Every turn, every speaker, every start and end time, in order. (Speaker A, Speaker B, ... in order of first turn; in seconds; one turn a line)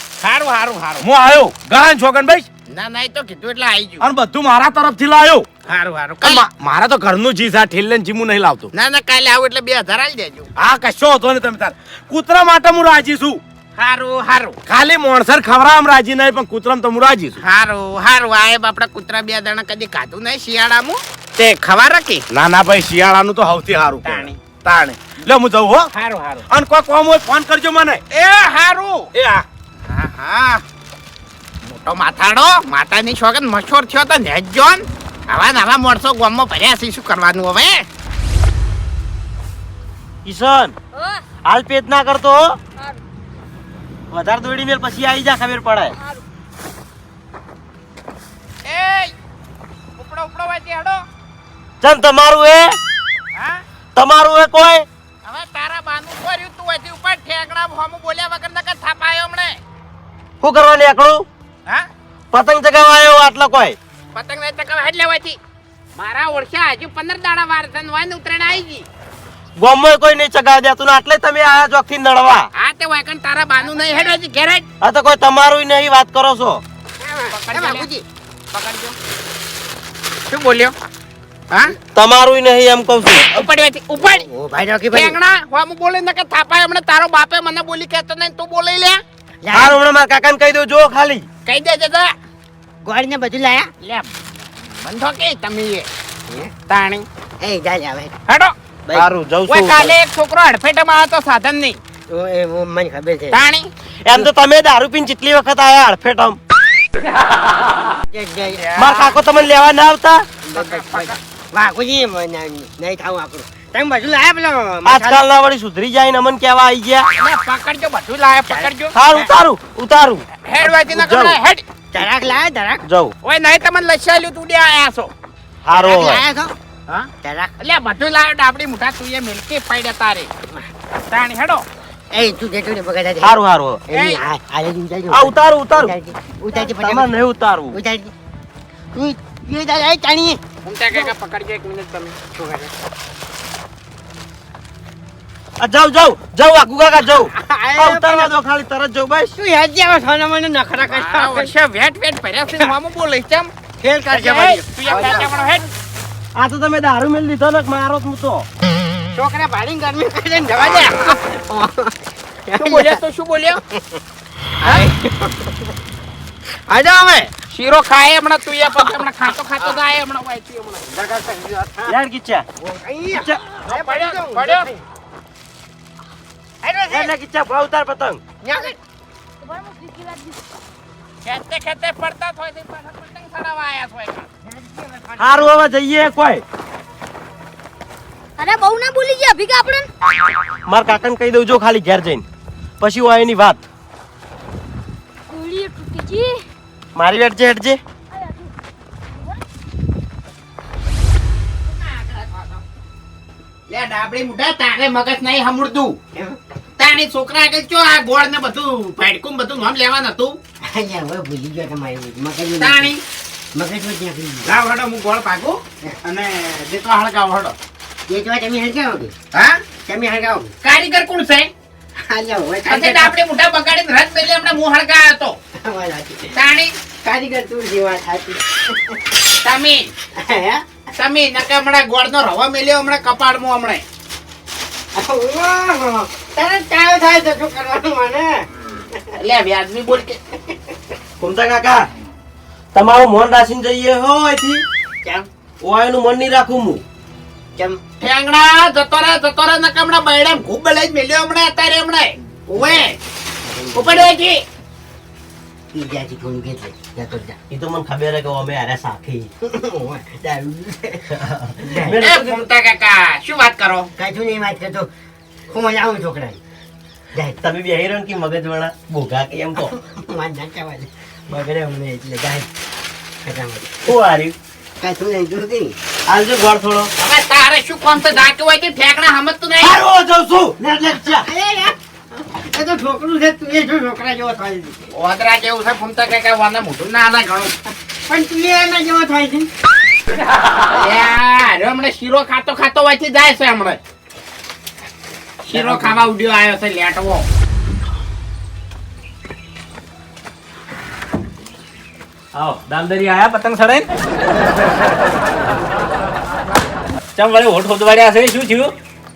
Speaker A: 0.2-1.1
Speaker B: 1.0-2.5
Speaker A: 2.7-4.0
Speaker B: 4.0-5.4
Speaker A: 5.7-6.5
Speaker B: 6.2-8.7
Speaker A: 8.7-10.5
Speaker B: 10.6-13.4
Speaker A: 13.8-14.6
Speaker B: 14.7-17.4
Speaker A: 17.4-22.2
Speaker B: 22.3-25.9
Speaker A: 24.0-24.4
Speaker A: 25.9-26.4
Speaker B: 26.5-28.0
Speaker A: 28.1-29.1
Speaker B: 29.1-29.4
Speaker A: 29.9-30.6
Speaker A: 31.6-37.8
Speaker C: 40.2-40.7
Speaker D: 40.9-41.2
Speaker C: 41.4-42.6
Speaker C: 44.1-45.9
Speaker A: 48.6-49.1
Speaker A: 50.0-51.0
Speaker C: 51.8-52.8
Speaker A: 53.4-53.6
Speaker C: 54.0-54.9
Speaker A: 55.2-59.6
Speaker C: 60.4-61.2
Speaker C: 62.3-63.8
Speaker A: 64.1-65.4
Speaker A: 66.0-68.8
Speaker C: 69.6-72.5
Speaker A: 72.5-74.6
Speaker C: 74.8-76.6
Speaker E: 77.0-78.0
Speaker A: 77.3-77.9
Speaker A: 78.5-78.9
Speaker A: 80.3-80.7
Speaker C: 81.9-83.4
Speaker A: 83.2-84.2
Speaker E: 84.0-85.2
Speaker A: 84.9-89.0
Speaker E: 89.4-89.8
Speaker C: 89.5-91.2
Speaker A: 91.5-92.1
Speaker E: 92.8-93.7
Speaker A: 93.8-95.9
Speaker A: 96.7-97.0
Speaker E: 97.4-98.1
Speaker A: 98.3-98.5
Speaker C: 99.0-99.7
Speaker B: 99.0-99.9
Speaker A: 99.5-101.8
Speaker E: 102.1-103.4
Speaker A: 103.3-103.7
Speaker C: 104.0-106.4
Speaker E: 108.1-109.1
Speaker A: 108.6-109.0
Speaker C: 108.8-110.3
Speaker E: 110.4-115.2
Speaker A: 110.5-111.2
Speaker C: 114.8-117.1
Speaker A: 117.2-118.9
Speaker E: 118.5-119.3
Speaker C: 118.9-120.2
Speaker A: 120.5-121.6
Speaker C: 120.9-121.4
Speaker E: 121.9-122.8
Speaker C: 122.8-123.1
Speaker A: 123.2-125.1
Speaker C: 125.6-126.2
Speaker E: 125.7-126.5
Speaker A: 126.9-130.3
Speaker E: 127.2-127.5
Speaker A: 131.1-131.6
Speaker E: 132.1-133.3
Speaker C: 133.2-133.8
Speaker E: 133.9-137.1
Speaker A: 133.9-134.2
Speaker C: 135.1-135.9
Speaker C: 136.5-137.8
Speaker E: 137.7-138.1
Speaker E: 138.9-140.4
Speaker A: 140.6-142.2
Speaker E: 142.3-142.7
Speaker C: 145.6-149.3
Speaker E: 147.3-148.3
Speaker E: 149.3-151.5
Speaker A: 150.9-153.5
Speaker E: 153.8-155.6
Speaker A: 154.1-155.6
Speaker C: 156.3-158.4
Speaker E: 159.1-163.0
Speaker A: 160.6-161.0
Speaker A: 162.6-163.6
Speaker E: 164.6-165.7
Speaker E: 166.7-167.3
Speaker A: 167.5-170.9
Speaker E: 170.9-171.9
Speaker C: 171.9-172.4
Speaker E: 172.6-174.8
Speaker C: 173.1-173.4
Speaker A: 173.7-174.7
Speaker E: 176.6-177.1
Speaker C: 176.9-178.2
Speaker A: 178.4-178.7
Speaker D: 179.4-180.4
Speaker A: 181.2-184.3
Speaker E: 184.6-185.4
Speaker C: 185.2-186.4
Speaker D: 188.4-189.9
Speaker C: 190.7-192.2
Speaker C: 192.8-193.6
Speaker D: 195.3-196.4
Speaker C: 196.9-197.8
Speaker D: 198.1-198.5
Speaker D: 199.1-199.4
Speaker A: 201.9-202.6
Speaker A: 203.7-206.0
Speaker A: 206.8-210.4
Speaker E: 210.6-212.9
Speaker A: 212.6-213.0
Speaker E: 213.5-214.5
Speaker A: 214.4-217.5
Speaker E: 218.1-219.1
Speaker A: 219.3-219.6
Speaker E: 219.8-220.5
Speaker A: 220.6-221.5
Speaker E: 222.0-223.1
Speaker A: 222.7-225.4
Speaker E: 225.6-226.3
Speaker A: 226.3-226.7
Speaker E: 227.0-229.0
Speaker A: 229.4-229.9
Speaker E: 230.1-230.6
Speaker A: 230.9-233.8
Speaker E: 234.9-239.1
Speaker A: 239.2-240.2
Speaker C: 241.2-241.8
Speaker C: 242.7-244.6
Speaker C: 245.6-246.8
Speaker E: 247.6-247.8
Speaker A: 248.0-252.6
Speaker E: 252.5-254.1
Speaker A: 253.7-254.4
Speaker E: 255.7-257.4
Speaker C: 257.5-259.3
Speaker E: 259.4-262.0
Speaker C: 261.1-262.4
Speaker A: 262.0-263.9
Speaker E: 264.0-264.9
Speaker E: 265.5-266.4
Speaker C: 267.4-269.7
Speaker E: 269.6-272.5
Speaker E: 273.2-273.8
Speaker C: 273.8-274.3
Speaker E: 274.8-275.8
Speaker C: 276.1-276.9
Speaker A: 277.0-279.8
Speaker C: 279.6-281.3
Speaker E: 281.2-284.8
Speaker A: 284.9-287.6
Speaker E: 288.1-289.5
Speaker A: 290.7-293.8
Speaker A: 295.4-297.2
Speaker F: 302.3-303.9
Speaker F: 307.1-308.7